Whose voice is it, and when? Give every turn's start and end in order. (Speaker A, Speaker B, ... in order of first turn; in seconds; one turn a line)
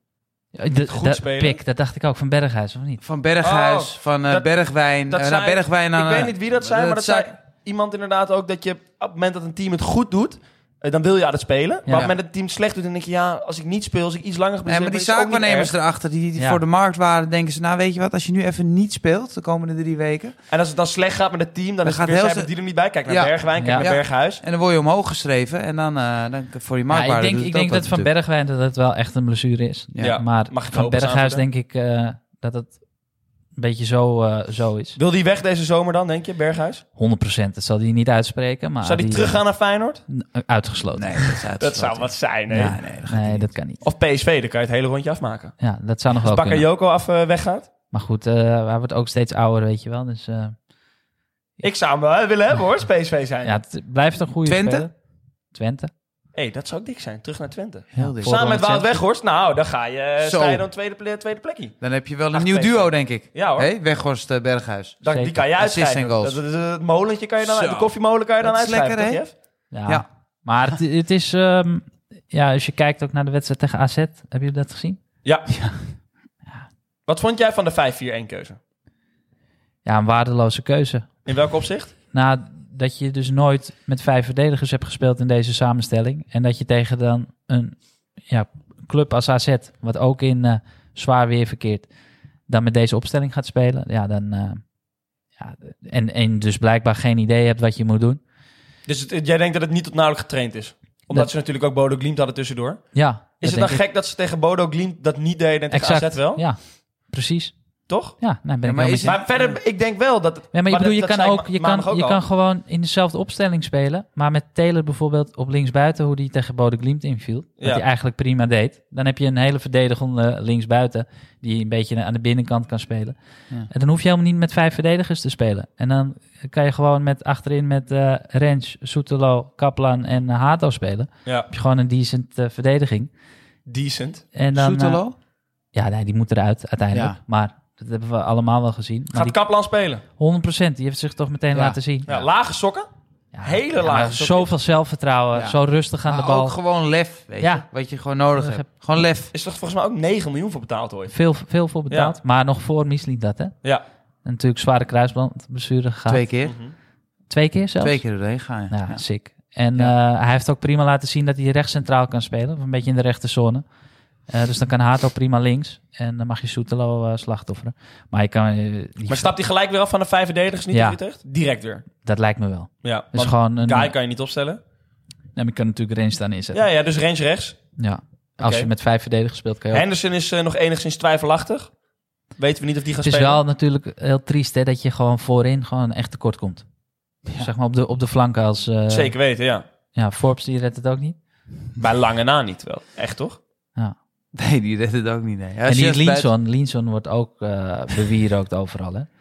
Speaker A: 0.5-3.0
Speaker B: 0.8-1.6
Speaker C: 3.0-7.3
Speaker B: 3.4-4.5
Speaker B: 5.1-15.7
Speaker C: 14.7-20.3
Speaker B: 20.5-24.4
Speaker C: 21.8-22.5
Speaker C: 23.1-28.1
Speaker A: 23.6-23.9
Speaker A: 26.9-32.8
Speaker C: 29.9-30.2
Speaker B: 30.0-31.4
Speaker A: 33.5-35.0
Speaker B: 35.0-36.8
Speaker A: 37.0-39.4
Speaker B: 38.8-40.0
Speaker A: 40.1-41.4
Speaker C: 41.0-43.5
Speaker B: 41.6-42.8
Speaker A: 43.0-43.8
Speaker B: 43.8-45.5
Speaker A: 45.6-46.6
Speaker B: 46.1-47.7
Speaker A: 47.9-50.5
Speaker B: 51.6-53.6
Speaker A: 53.4-54.9
Speaker C: 54.5-54.9
Speaker A: 55.5-55.9
Speaker B: 56.3-61.7
Speaker C: 58.0-59.0
Speaker C: 60.2-60.7
Speaker C: 61.8-65.0
Speaker B: 62.3-63.7
Speaker B: 65.0-69.3
Speaker A: 65.0-65.3
Speaker C: 65.5-66.4
Speaker C: 67.4-67.9
Speaker C: 68.4-69.2
Speaker A: 69.7-75.0
Speaker C: 75.5-75.8
Speaker B: 77.1-78.6
Speaker A: 79.8-81.2
Speaker B: 81.2-81.9
Speaker A: 82.1-91.9
Speaker A: 92.5-94.7
Speaker A: 95.3-98.2
Speaker B: 98.8-106.4
Speaker A: 102.9-103.8
Speaker A: 105.7-109.2
Speaker B: 107.9-108.2
Speaker C: 108.6-109.6
Speaker B: 109.0-112.2
Speaker A: 110.5-123.2
Speaker A: 123.7-133.1
Speaker B: 133.7-134.2
Speaker A: 134.3-135.0
Speaker C: 134.5-135.1
Speaker A: 135.7-139.3
Speaker C: 136.9-137.2
Speaker B: 139.1-140.0
Speaker A: 140.2-142.1
Speaker C: 141.5-142.3
Speaker B: 142.1-142.9
Speaker A: 143.3-146.6
Speaker B: 143.4-144.5
Speaker C: 145.3-149.3
Speaker A: 147.4-147.7
Speaker A: 148.3-148.6
Speaker B: 149.3-151.1
Speaker A: 151.1-153.5
Speaker A: 154.2-156.2
Speaker C: 156.1-156.6
Speaker B: 156.4-156.7
Speaker A: 157.3-158.1
Speaker C: 157.8-159.0
Speaker A: 158.7-163.6
Speaker A: 164.3-169.4
Speaker B: 169.1-171.8
Speaker A: 170.7-171.0
Speaker A: 172.0-173.9
Speaker B: 172.8-174.6
Speaker A: 175.3-176.6
Speaker B: 176.5-177.6
Speaker A: 177.8-179.8
Speaker B: 178.4-178.7
Speaker B: 179.7-181.7
Speaker B: 182.4-183.4
Speaker A: 183.0-186.7
Speaker C: 187.2-187.5
Speaker A: 187.3-189.1
Speaker B: 188.9-189.6
Speaker A: 189.9-191.2
Speaker B: 191.8-193.4
Speaker C: 194.3-196.3
Speaker A: 195.7-199.1